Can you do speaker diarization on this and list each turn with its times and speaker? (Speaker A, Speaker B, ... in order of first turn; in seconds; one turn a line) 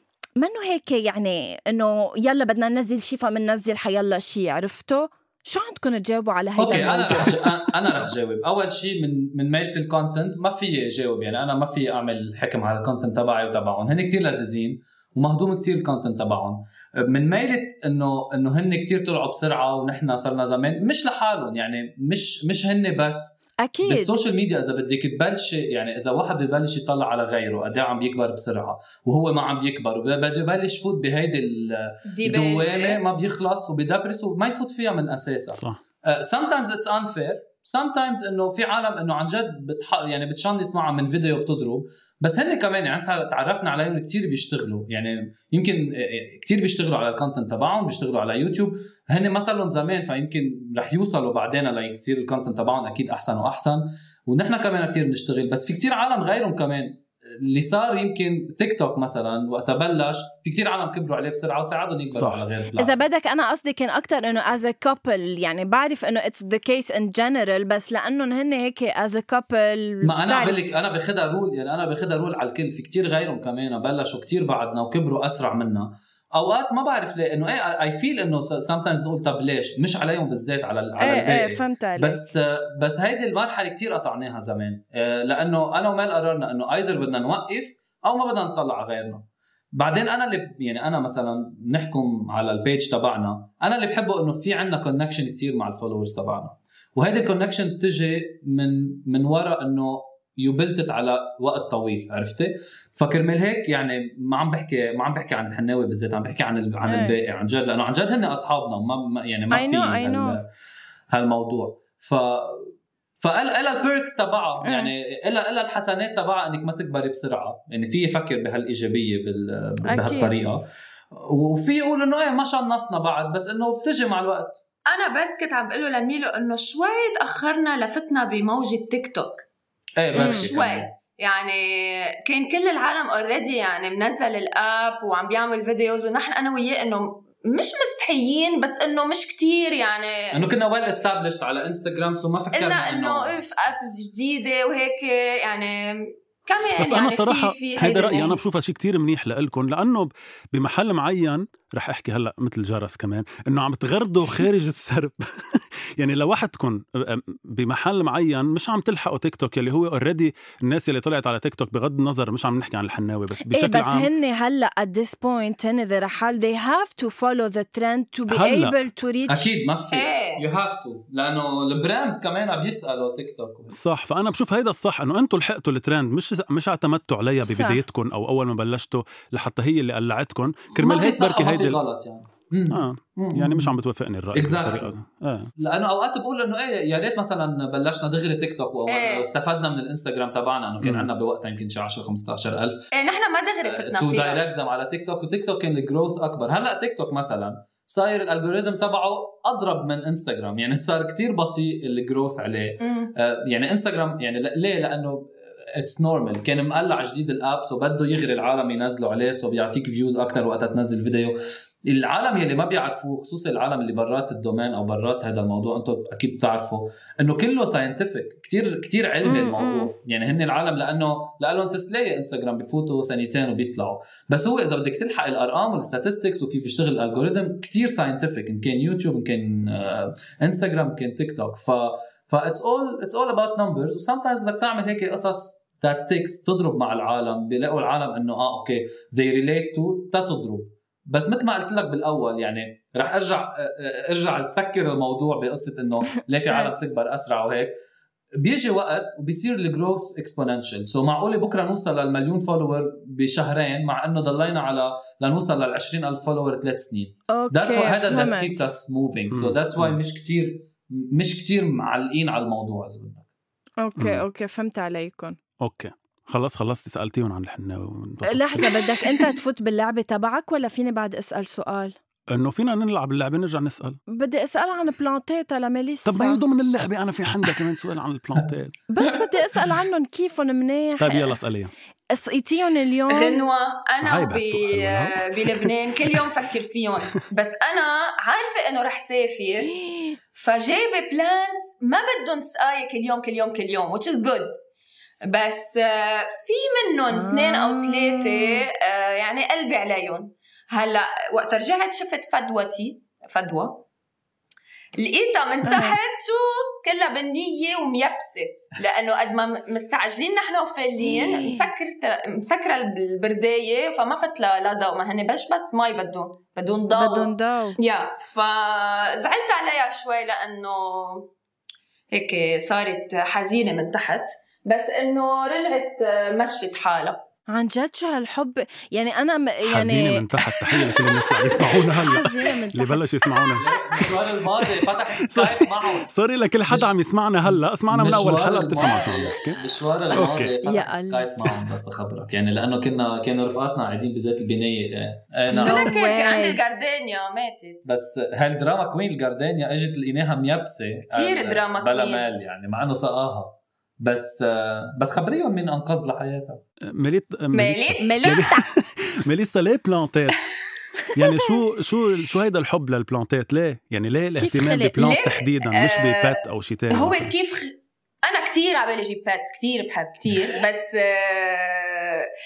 Speaker A: 0.4-7.5
Speaker B: 6.6-63.0
Speaker A: 23.6-24.2
Speaker C: 32.1-33.0
Speaker D: 35.5-35.8
Speaker D: 62.1-62.4
Speaker A: 62.8-70.6
Speaker B: 70.0-89.2
Speaker A: 81.0-82.3
Speaker B: 89.8-110.5
Speaker A: 106.9-107.2
Speaker A: 109.5-110.4
Speaker B: 111.1-124.6
Speaker A: 114.6-114.9
Speaker A: 119.9-120.4
Speaker C: 124.9-129.4
Speaker B: 130.0-130.9
Speaker C: 130.2-140.4
Speaker A: 130.2-130.5
Speaker B: 140.3-143.7
Speaker C: 142.5-148.4
Speaker D: 146.8-164.1
Speaker A: 163.5-169.5
Speaker D: 168.3-168.8
Speaker B: 169.3-173.8
Speaker C: 169.9-170.4
Speaker D: 173.7-181.8
Speaker A: 177.4-177.8
Speaker B: 180.8-183.7
Speaker D: 182.7-185.5
Speaker B: 184.3-184.9
Speaker B: 185.6-192.8
Speaker C: 188.9-189.3
Speaker D: 190.8-191.1
Speaker C: 192.9-194.4
Speaker B: 193.7-247.7
Speaker C: 202.8-203.1
Speaker A: 219.2-219.9
Speaker B: 248.4-263.3
Speaker A: 257.3-258.7
Speaker D: 259.3-260.0
Speaker A: 263.8-265.4
Speaker D: 264.0-264.2
Speaker D: 265.6-268.8
Speaker A: 268.2-271.9
Speaker D: 272.3-274.0
Speaker A: 274.1-276.4
Speaker D: 276.1-278.8
Speaker A: 278.9-281.4
Speaker D: 281.0-281.7
Speaker A: 282.1-283.4
Speaker C: 283.1-289.7
Speaker D: 284.0-286.2
Speaker A: 289.7-290.1
Speaker C: 290.3-294.6
Speaker C: 295.3-303.8
Speaker A: 297.1-298.6
Speaker C: 305.0-321.3
Speaker A: 305.6-306.0
Speaker A: 311.0-311.7
Speaker A: 316.9-317.8
Speaker C: 322.1-327.2
Speaker A: 327.5-333.6
Speaker D: 329.6-340.6
Speaker B: 333.6-336.1
Speaker B: 336.7-345.8
Speaker C: 338.8-339.3
Speaker A: 340.6-341.3
Speaker C: 345.5-347.9
Speaker A: 345.5-346.6
Speaker B: 347.9-356.6
Speaker C: 351.1-352.2
Speaker D: 356.9-360.5
Speaker C: 357.5-358.4
Speaker A: 358.0-358.7
Speaker D: 361.1-367.3
Speaker A: 364.4-365.0
Speaker C: 365.0-372.3